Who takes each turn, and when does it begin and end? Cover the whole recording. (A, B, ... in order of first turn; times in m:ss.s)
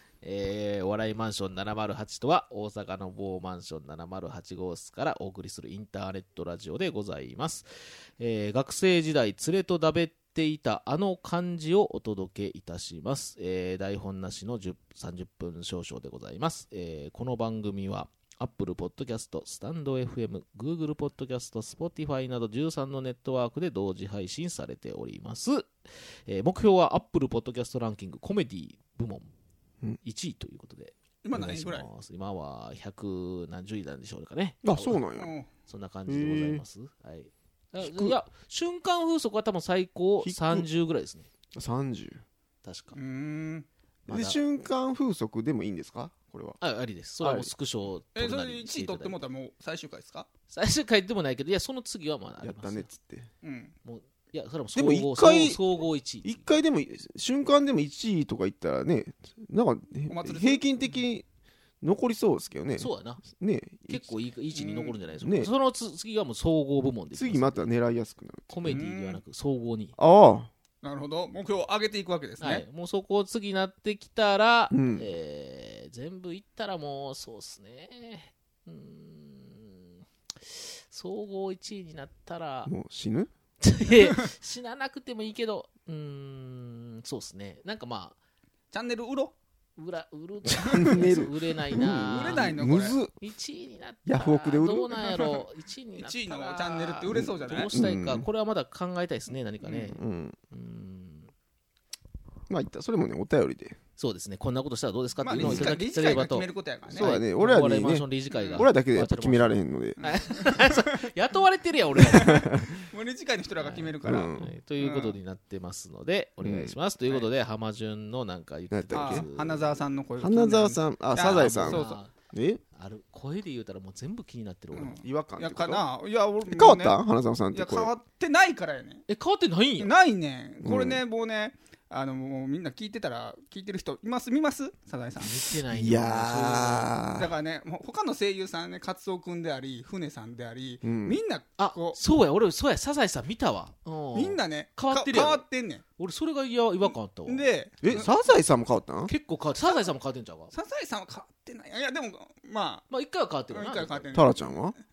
0:00.2-0:25.7 A
0:26.3-0:29.3 A
0:30.0-0:35.0 A
0:31.2-0:31.9 B
0:34.6-0:35.3 C
0:35.2-0:35.5 B
0:35.7-0:41.3 A
0:36.1-0:36.6 C
0:37.8-0:38.2 C
0:40.2-0:40.7 C
0:41.5-0:42.2 C
0:42.6-0:43.0 A
0:43.0-0:43.7 B
0:44.1-0:44.4 A
0:44.1-0:46.6 C
0:46.6-0:49.2 A
0:47.2-0:47.5 C
0:48.2-0:50.3 B
0:50.5-0:52.9 A
0:52.4-0:53.3 C
0:53.4-0:53.7 B
0:53.8-0:56.5 A
0:54.8-0:55.6 C
0:56.2-1:01.2 C
1:00.1-1:00.7 B
1:01.8-1:04.2 C
1:02.8-1:03.2 A
1:03.9-1:07.6 A
1:04.6-1:05.0 B
1:05.2-1:05.5 C
1:07.2-1:08.8 C
1:08.5-1:10.0 A
1:08.6-1:09.2 B
1:10.0-1:10.5 C
1:10.8-1:12.6 B
1:12.4-1:22.7 A
1:14.7-1:15.1 C
1:22.7-1:23.3 C
1:23.6-1:28.2 A
1:28.7-1:29.4 B
1:29.8-1:32.6 A
1:30.5-1:33.1 C
1:31.8-1:33.0 B
1:33.2-1:41.3 A
1:34.1-1:35.1 C
1:36.0-1:37.7 B
1:37.1-1:38.2 C
1:39.7-1:40.4 C
1:42.5-1:43.8 C
1:44.0-1:52.5 A
1:45.2-1:47.1 B
1:45.4-1:46.3 C
1:46.9-1:50.0 C
1:48.3-1:48.7 B
1:50.0-1:50.8 B
1:52.1-1:55.2 B
1:52.2-1:52.8 C
1:53.6-1:59.8 A
1:54.0-1:54.5 C
1:56.4-1:56.8 C
1:58.7-1:59.2 C
1:58.9-2:02.0 B
2:00.2-2:02.6 C
2:01.3-2:02.1 A
2:02.7-2:05.0 A
2:04.7-2:07.0 B
2:05.0-2:05.8 C
2:06.4-2:07.9 C
2:07.5-2:09.1 B
2:09.1-2:09.9 A
2:09.8-2:15.5 B
2:10.6-2:11.0 C
2:15.2-2:16.9 A
2:15.7-2:17.3 C
2:17.2-2:22.0 B
2:20.8-2:21.2 C
2:21.6-2:25.4 A
2:24.1-2:25.8 B
2:26.0-2:28.0 A
2:27.3-2:28.1 B
2:27.8-2:29.1 C
2:29.1-2:30.5 A
2:29.6-2:29.8 B
2:30.5-2:32.9 B
2:32.9-2:34.2 A
2:33.5-2:34.4 B
2:34.1-2:34.8 C